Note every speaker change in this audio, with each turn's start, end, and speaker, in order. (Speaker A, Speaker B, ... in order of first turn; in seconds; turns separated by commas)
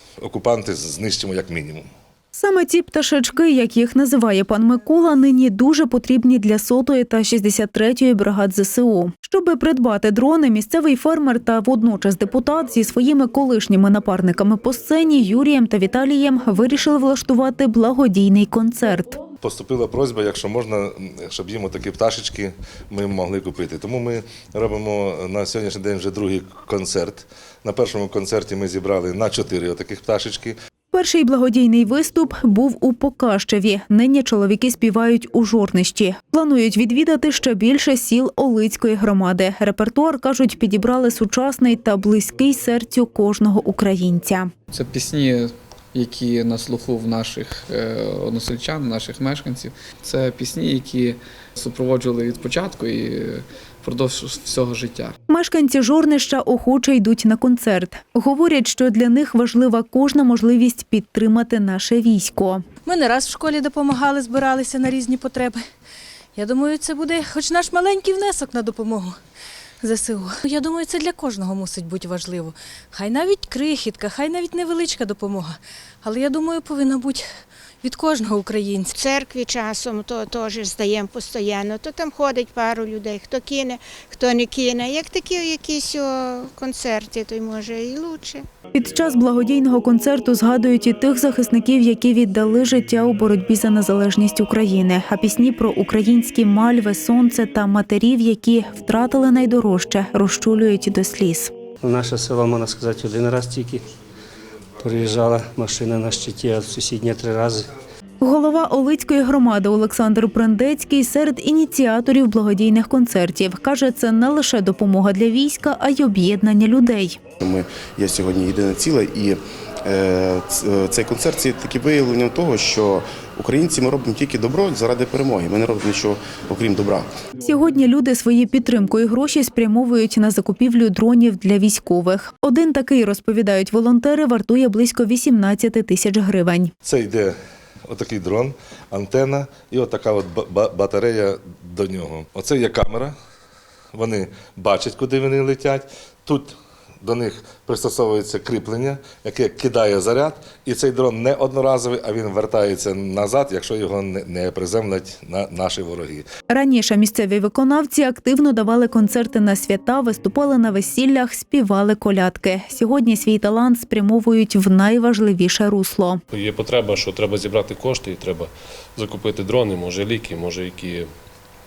Speaker A: 0.2-1.9, Speaker B: 2.4-19.1, Speaker A: 19.4-30.6, Speaker B: 30.9-44.5, Speaker C: 44.7-55.1, Speaker B: 55.4-61.7, Speaker D: 62.9-65.6, Speaker D: 66.4-69.1, Speaker D: 69.8-77.3, Speaker D: 77.8-78.9, Speaker E: 79.0-88.4, Speaker B: 89.1-101.5, Speaker F: 101.8-103.8, Speaker F: 104.8-107.7, Speaker B: 108.2-117.1, Speaker G: 117.4-127.1, Speaker B: 127.5-136.7, Speaker A: 136.8-137.3, Speaker A: 137.9-143.1, Speaker A: 143.9-156.2, Speaker B: 156.6-166.2, Speaker H: 166.3-171.1